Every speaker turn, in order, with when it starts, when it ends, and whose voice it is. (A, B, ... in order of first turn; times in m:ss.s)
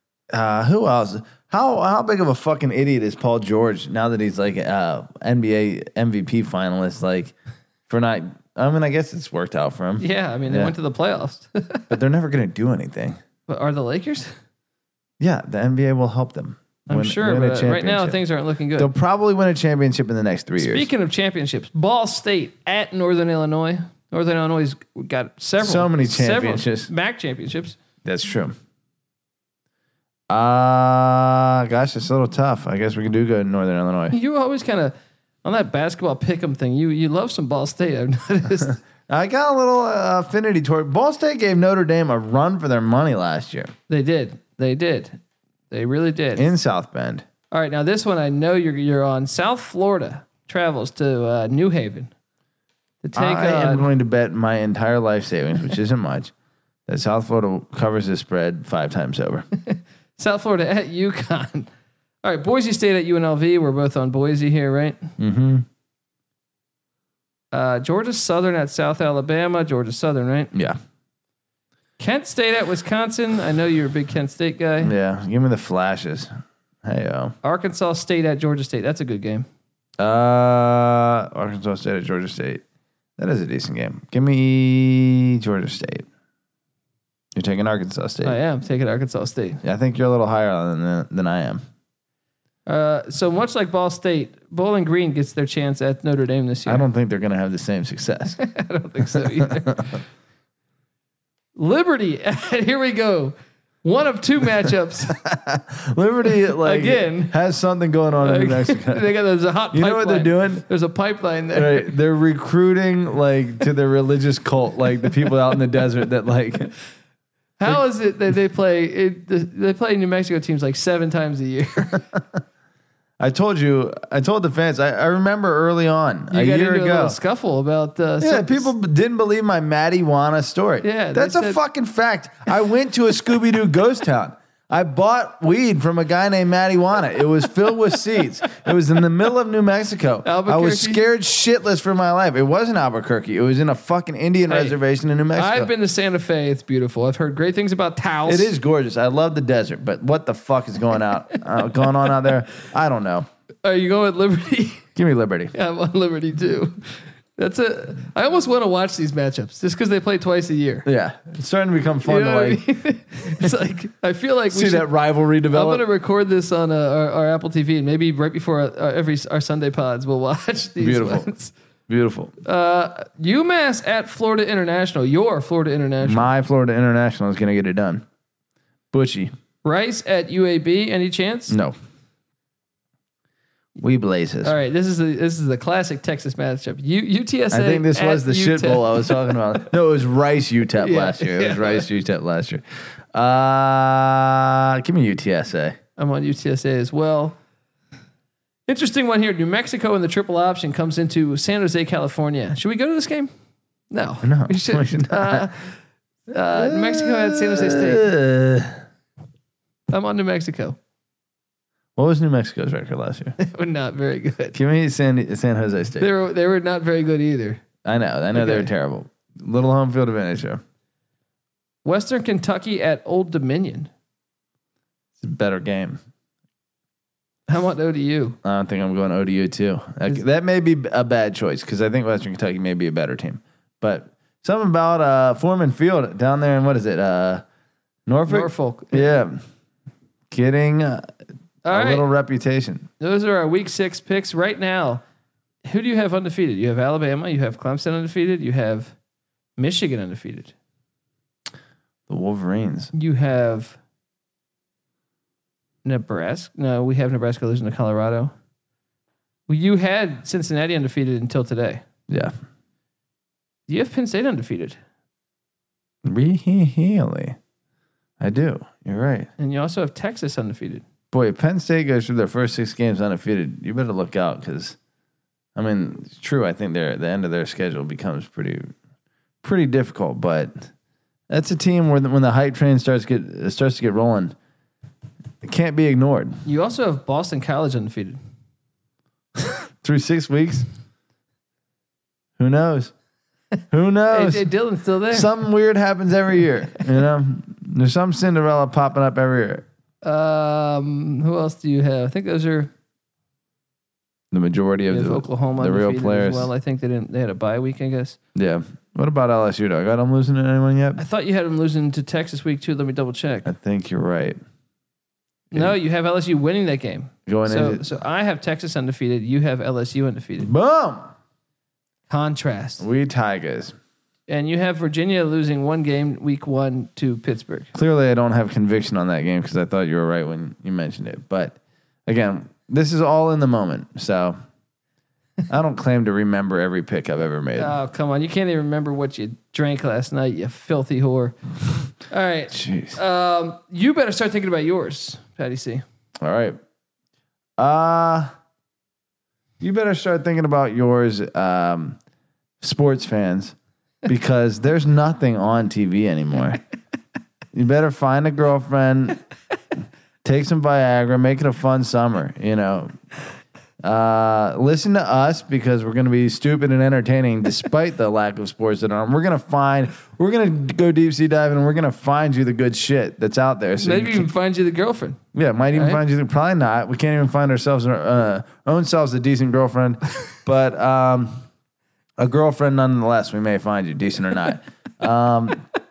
0:00.3-0:07.3 A
0:07.9-0:10.7 A
0:10.0-0:11.9 B
0:11.9-0:13.2 A
0:13.5-0:14.3 B
0:15.2-0:18.2 A
0:16.9-0:18.9 B
0:18.8-0:20.9 A
0:20.6-0:27.8 B
0:25.6-0:26.9 A
0:28.0-0:28.5 A
0:30.3-0:34.2 A
0:34.1-0:38.8 B
0:39.1-0:43.7 A
0:43.9-0:45.2 B
0:45.7-0:46.5 B
0:46.4-0:47.2 A
0:47.5-0:52.1 B
0:53.0-0:53.9 B
0:53.2-0:56.3 A
0:56.9-0:59.5 A
0:59.6-1:01.7 B
1:02.2-1:05.1 B
1:05.2-1:05.7 A
1:07.5-1:10.5 B
1:10.5-1:10.8 A
1:12.0-1:14.9 B
1:14.8-1:16.3 A
1:16.8-1:17.3 A
1:17.4-1:19.5 B
1:20.0-1:22.6 A
1:23.2-1:26.1 A
1:27.4-1:28.4 A
1:28.2-1:29.6 B
1:29.6-1:31.6 A
1:32.7-1:36.9 B
1:36.7-1:38.4 A
1:38.4-1:40.0 B
1:39.2-1:39.7 A
1:41.6-1:45.2 B
1:45.2-1:49.1 A
1:46.5-1:47.4 B
1:48.2-1:51.9 B
1:49.7-1:50.6 A
1:51.5-1:56.7 A
1:57.6-2:02.1 B
2:03.2-2:07.2 A
2:06.3-2:08.7 B
2:08.2-2:25.7 A
2:10.8-2:11.6 B
2:20.2-2:21.0 B
2:24.5-2:24.8 B
2:25.4-2:28.5 B
2:28.3-2:33.3 A
2:33.6-2:34.9 B
2:35.0-2:35.5 A
2:35.5-2:40.9 B
2:40.9-2:42.6 A
2:42.0-2:44.9 B
2:44.5-2:45.8 A
2:45.5-2:51.5 B
2:50.8-2:51.3 A
2:51.9-2:52.4 A
2:52.4-2:56.3 B
2:56.0-2:58.0 A
2:58.9-2:59.3 A
2:59.6-3:01.6 B
3:01.5-3:01.8 A
3:03.8-3:04.6 A
3:04.4-3:09.2 B
3:07.5-3:12.6 A
3:10.8-3:11.9 B
3:13.1-3:15.8 A
3:16.0-3:17.4 B
3:18.7-3:23.3 B
3:23.9-3:25.7 B
3:24.2-3:25.5 A
3:26.3-3:28.1 B
3:26.5-3:28.8 A
3:29.9-3:30.8 B
3:32.0-3:33.4 A
3:33.4-3:34.6 B
3:34.5-3:36.1 A
3:36.0-3:37.6 B
3:37.8-3:40.6 A
3:38.3-3:38.7 B
3:41.8-3:43.9 B
3:45.2-3:46.0 A
3:47.5-3:48.4 B
3:48.4-3:57.4 A
3:58.1-3:59.4 A
3:58.3-3:59.2 B
4:00.3-4:01.1 A
4:01.6-4:02.1 B
4:01.7-4:02.9 A
4:03.0-4:05.0 B
4:05.6-4:08.9 B
4:09.6-4:10.5 B
4:12.1-4:12.9 A
4:12.9-4:13.8 B
4:15.8-4:18.3 B
4:19.5-4:21.8 B
4:23.7-4:24.8 B
4:26.0-4:27.4 A
4:28.2-4:29.3 A
4:29.4-4:30.8 B
4:31.1-4:34.8 A
4:35.6-4:38.7 A
4:39.4-4:40.7 A
4:41.3-4:44.4 A
4:45.4-4:46.4 A
4:46.4-4:48.2 B
4:49.8-4:50.7 A
4:52.4-4:52.9 A
4:53.7-4:54.5 A
4:54.1-4:55.3 B
4:55.1-4:59.7 A
5:00.0-5:02.7 B
5:04.3-5:06.5 A
5:04.9-5:08.2 B
5:08.4-5:11.0 A
5:11.0-5:13.5 B
5:13.4-5:14.4 A
5:15.5-5:20.5 B
5:17.3-5:17.8 A
5:20.4-5:21.1 A
5:22.1-5:22.8 B
5:22.8-5:23.8 A
5:24.3-5:27.7 B
5:27.7-5:34.4 A
5:35.5-5:37.8 A
5:37.6-5:41.4 B
5:42.0-5:45.8 B
5:42.5-5:43.0 A
5:46.2-5:46.6 A
5:47.6-5:48.3 A
5:49.6-5:52.0 A
5:52.6-5:56.6 A
5:57.5-5:59.2 A
6:00.2-6:02.9 A
6:03.8-6:14.3 A
6:13.8-6:15.2 B
6:15.4-6:21.3 A
6:15.7-6:16.0 B
6:22.2-6:25.6 A